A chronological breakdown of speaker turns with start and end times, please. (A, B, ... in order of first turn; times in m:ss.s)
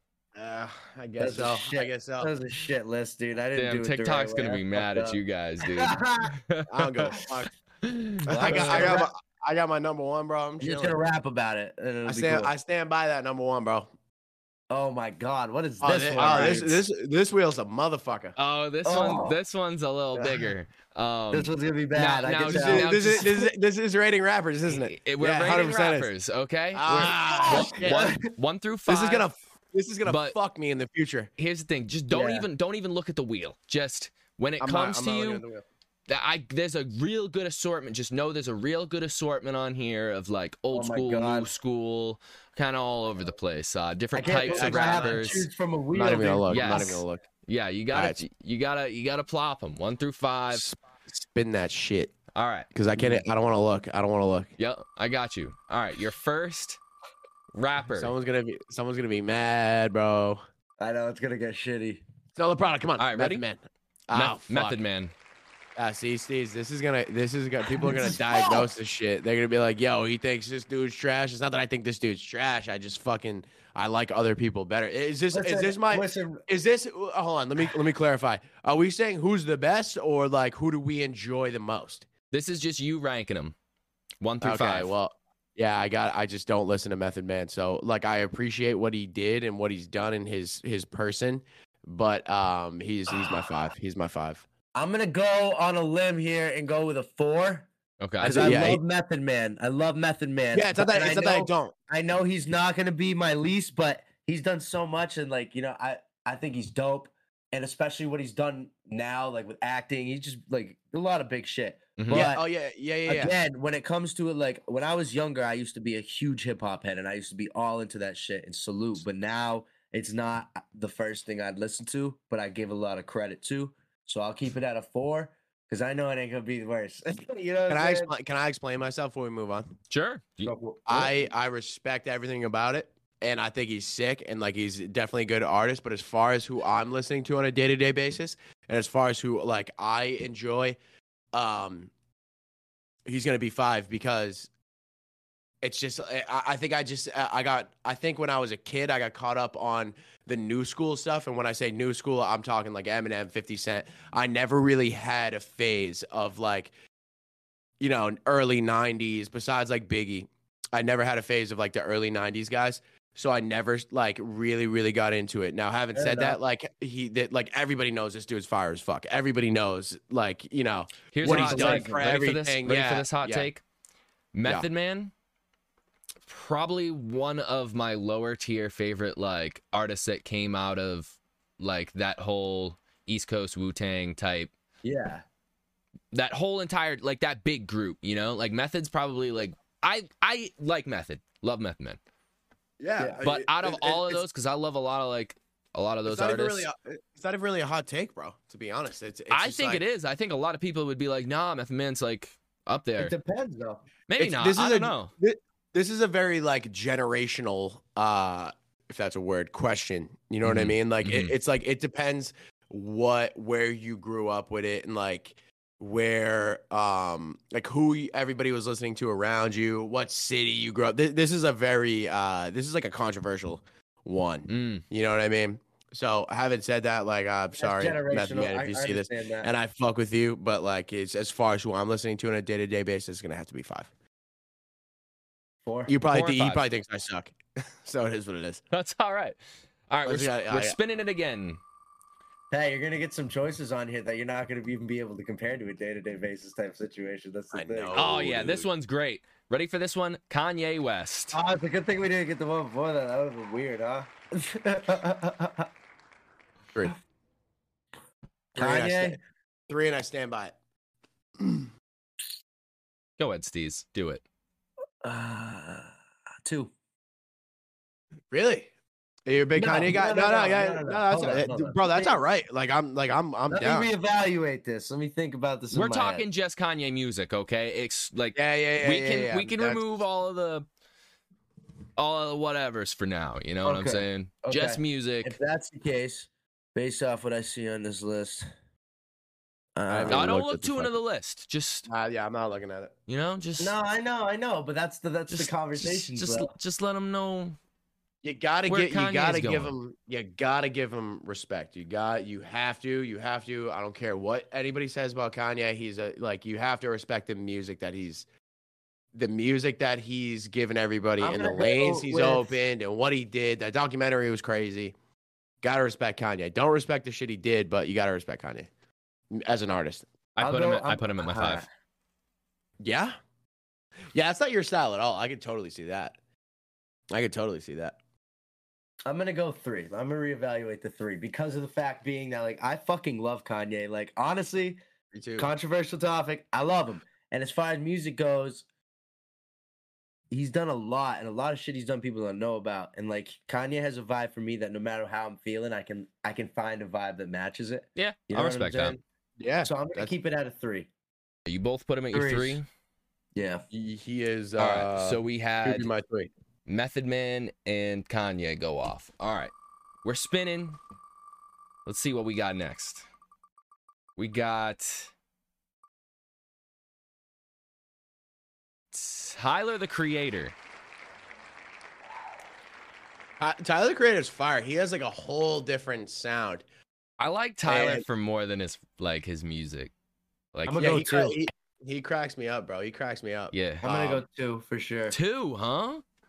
0:00.4-0:02.3 A
0:01.2-0:06.3 B
0:03.5-0:07.3 C
0:06.7-0:07.5 A
0:07.8-0:09.0 C
0:08.3-0:09.1 B
0:08.3-0:11.0 A
0:10.6-0:12.5 B
0:12.0-0:13.9 A
0:14.7-0:16.8 B
0:15.8-0:18.3 A
0:16.2-0:16.6 C
0:18.4-0:23.4 C
0:18.8-0:19.4 B
0:20.1-0:20.5 B
0:21.3-0:23.3 B
0:22.4-0:26.1 A
0:24.7-0:29.3 C
0:26.7-0:28.1 A
0:26.9-0:28.2 B
0:28.9-0:31.3 A
0:30.0-0:30.4 C
0:31.4-0:35.4 C
0:32.1-0:32.5 B
0:34.6-0:35.6 A
0:36.1-0:45.4 C
0:40.7-0:41.5 B
0:44.1-0:47.0 B
0:44.3-0:45.4 A
0:45.9-0:47.2 A
0:46.5-0:50.6 C
0:47.9-0:48.2 A
0:50.5-0:52.1 A
0:52.3-0:53.1 C
0:52.7-0:54.5 A
0:54.6-0:56.8 C
0:57.5-0:58.1 C
0:58.0-1:00.4 A
1:00.8-1:02.0 B
1:02.4-1:04.8 A
1:03.0-1:03.4 C
1:04.1-1:05.1 C
1:05.8-1:22.0 A
1:07.8-1:08.7 B
1:15.3-1:16.4 B
1:22.3-1:23.5 C
1:24.2-1:24.9 C
1:24.4-1:34.4 A
1:34.7-1:37.7 B
1:38.0-1:38.6 C
1:38.2-1:38.8 A
1:38.2-1:52.4 B
1:40.5-1:41.7 A
1:52.0-1:52.2 C
1:52.1-1:53.3 A
1:53.0-2:08.1 B
2:07.7-2:09.7 A
2:09.9-2:10.5 C
2:10.4-2:11.2 B
2:10.9-2:20.8 A
2:21.3-2:21.9 A
2:23.1-2:24.5 A
2:25.6-2:36.7 A
2:37.8-2:53.5 A
2:45.9-2:46.4 B
2:51.1-2:53.6 C
2:51.2-2:52.0 B
2:54.3-2:55.1 C
2:56.2-3:04.5 C
3:04.8-3:05.2 B
3:06.1-3:12.0 C
3:12.8-3:14.2 A
3:13.2-3:16.7 C
3:16.0-3:19.8 A
3:19.3-3:23.1 C
3:23.0-3:23.8 B
3:24.1-3:25.1 C
3:24.2-3:53.9 A
3:30.4-3:31.3 C
3:44.5-3:44.8 C
3:47.6-3:49.5 B
3:55.6-3:55.9 B
3:55.9-3:58.6 A
3:56.1-3:56.7 C
3:58.7-3:59.4 C
3:59.9-4:01.6 C
4:00.0-4:00.8 A
4:02.5-4:08.0 B
4:07.5-4:08.7 A
4:07.9-4:11.4 C
4:11.3-4:15.7 B
4:18.5-4:19.2 B
4:18.5-4:19.2 A
4:19.7-4:20.5 A
4:21.4-4:21.7 A
4:23.2-4:24.2 C
4:25.0-4:25.9 B
4:26.4-4:26.7 B
4:28.3-4:28.7 A
4:29.2-4:33.9 A
4:29.6-4:32.2 B
4:33.5-4:36.2 B
4:35.7-4:40.6 C
4:38.4-4:39.9 A
4:42.0-4:45.4 C
4:43.6-4:48.5 B
4:49.7-4:50.3 B
4:49.9-4:50.9 A
4:50.1-4:51.9 C
4:51.9-4:52.9 A
4:53.1-4:53.7 C
4:53.6-4:56.5 B
4:55.3-4:57.6 C
4:58.2-5:08.2 A
4:58.7-4:59.7 C
5:09.1-5:14.9 A
5:11.2-5:12.6 B
5:15.6-5:18.7 A
5:19.3-5:20.0 A
5:20.4-5:21.6 C
5:20.4-5:21.7 B
5:22.8-5:23.1 A
5:24.1-5:26.2 A
5:27.1-5:28.0 A
5:29.0-5:34.8 B
5:35.1-5:35.5 A
5:35.4-5:38.6 B
5:40.3-5:49.0 B
5:48.0-5:49.0 C
5:49.4-5:50.1 A
5:49.6-5:50.9 B
5:51.4-5:52.6 C
5:52.1-5:52.6 B
5:53.3-5:53.6 B
5:53.7-5:56.3 A
5:54.6-5:55.9 C
5:56.7-5:59.5 C
6:00.0-6:00.8 C
6:01.8-6:03.0 C
6:04.2-6:05.1 C
6:08.9-6:10.5 C
6:13.4-6:16.6 A
6:17.2-6:19.9 C
6:17.6-6:18.0 A
6:20.5-6:20.8 C
6:20.6-6:21.4 B
6:20.8-6:24.2 A
6:23.5-6:23.9 C
6:23.8-6:25.1 B
6:25.1-6:26.0 C